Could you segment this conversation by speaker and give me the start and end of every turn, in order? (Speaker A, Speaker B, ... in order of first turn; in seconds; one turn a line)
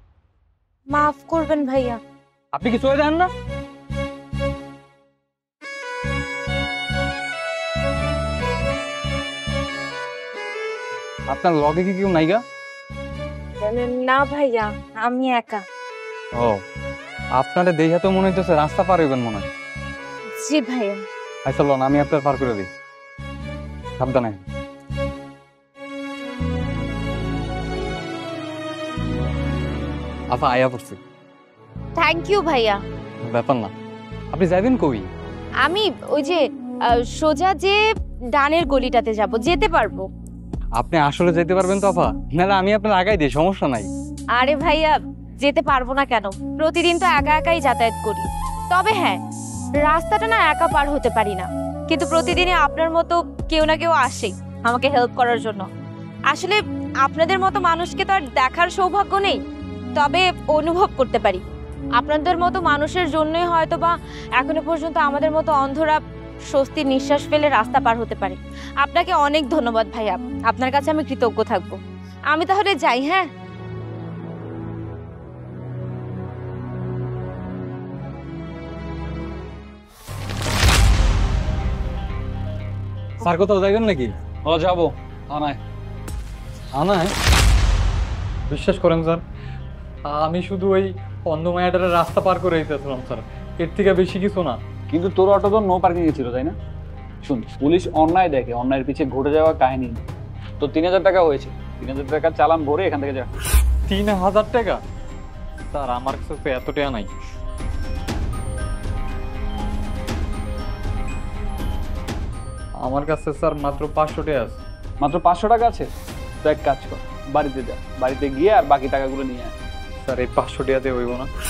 Speaker A: 0.9-2.0
Speaker B: 2.5-3.3
Speaker B: 11.3-12.4
Speaker A: 13.6-15.6
Speaker B: 17.4-19.5
Speaker A: 20.4-21.0
Speaker B: 21.4-22.7
Speaker B: 24.0-24.4
Speaker B: 30.3-31.0
Speaker A: 32.0-32.8
Speaker B: 33.2-33.7
Speaker B: 34.3-35.1
Speaker A: 35.6-36.4
Speaker A: 36.9-37.8
Speaker A: 38.4-40.1
Speaker B: 40.7-43.9
Speaker A: 44.3-49.2
Speaker A: 49.8-55.7
Speaker A: 56.3-59.4
Speaker A: 60.0-61.4
Speaker A: 62.0-66.0
Speaker A: 66.5-71.8
Speaker A: 72.3-73.3
Speaker B: 83.2-84.1
Speaker C: 84.4-85.6
Speaker B: 86.7-87.1
Speaker B: 88.5-89.2
Speaker B: 90.1-94.6
Speaker C: 94.9-96.5
Speaker C: 97.2-100.0
Speaker C: 100.6-103.3
Speaker B: 103.9-104.8
Speaker B: 105.7-107.1
Speaker B: 112.8-114.6
Speaker C: 115.0-115.9
Speaker C: 116.4-119.5
Speaker B: 120.0-121.3